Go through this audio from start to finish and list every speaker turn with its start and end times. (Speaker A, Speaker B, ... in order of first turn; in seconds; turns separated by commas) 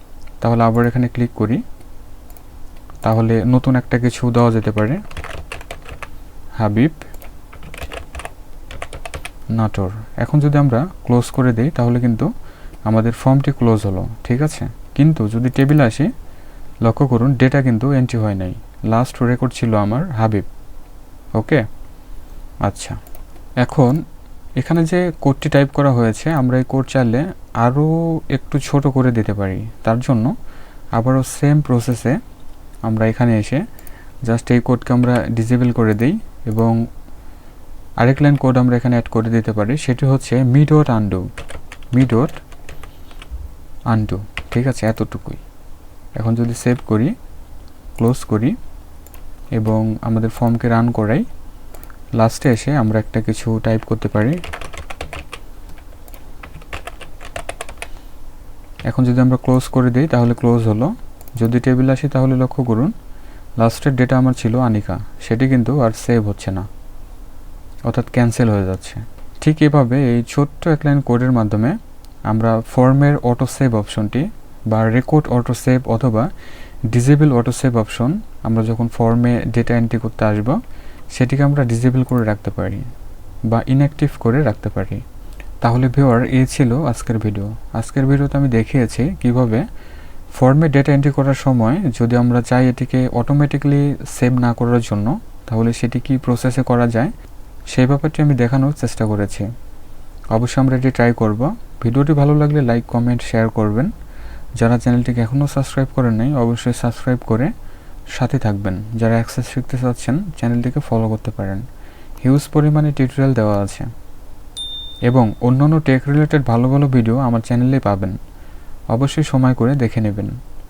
Speaker A: 0.4-1.6, Speaker A: 3.0-5.0, Speaker A: 6.6-7.0, Speaker A: 9.5-12.3, Speaker A: 12.9-16.1, Speaker A: 16.8-20.5, Speaker A: 21.4-21.6, Speaker A: 22.6-23.0, Speaker A: 23.6-24.0, Speaker A: 24.6-30.3, Speaker A: 31.0-32.2, Speaker A: 32.8-33.6, Speaker A: 34.3-36.8, Speaker A: 38.0-41.2, Speaker A: 41.9-42.4, Speaker A: 43.9-45.4, Speaker A: 46.2-47.1, Speaker A: 48.0-48.6, Speaker A: 49.5-51.3, Speaker A: 52.2-54.4, Speaker A: 58.9-62.9, Speaker A: 63.6-66.7, Speaker A: 67.9-71.8, Speaker A: 72.3-76.3, Speaker A: 76.9-80.6, Speaker A: 81.1-82.9, Speaker A: 83.5-85.0, Speaker A: 85.6-89.6, Speaker A: 90.4-97.1, Speaker A: 97.7-99.5, Speaker A: 100.3-103.9, Speaker A: 104.6-107.5, Speaker A: 108.2-111.6, Speaker A: 112.2-113.9, Speaker A: 115.1-118.2, Speaker A: 118.9-120.4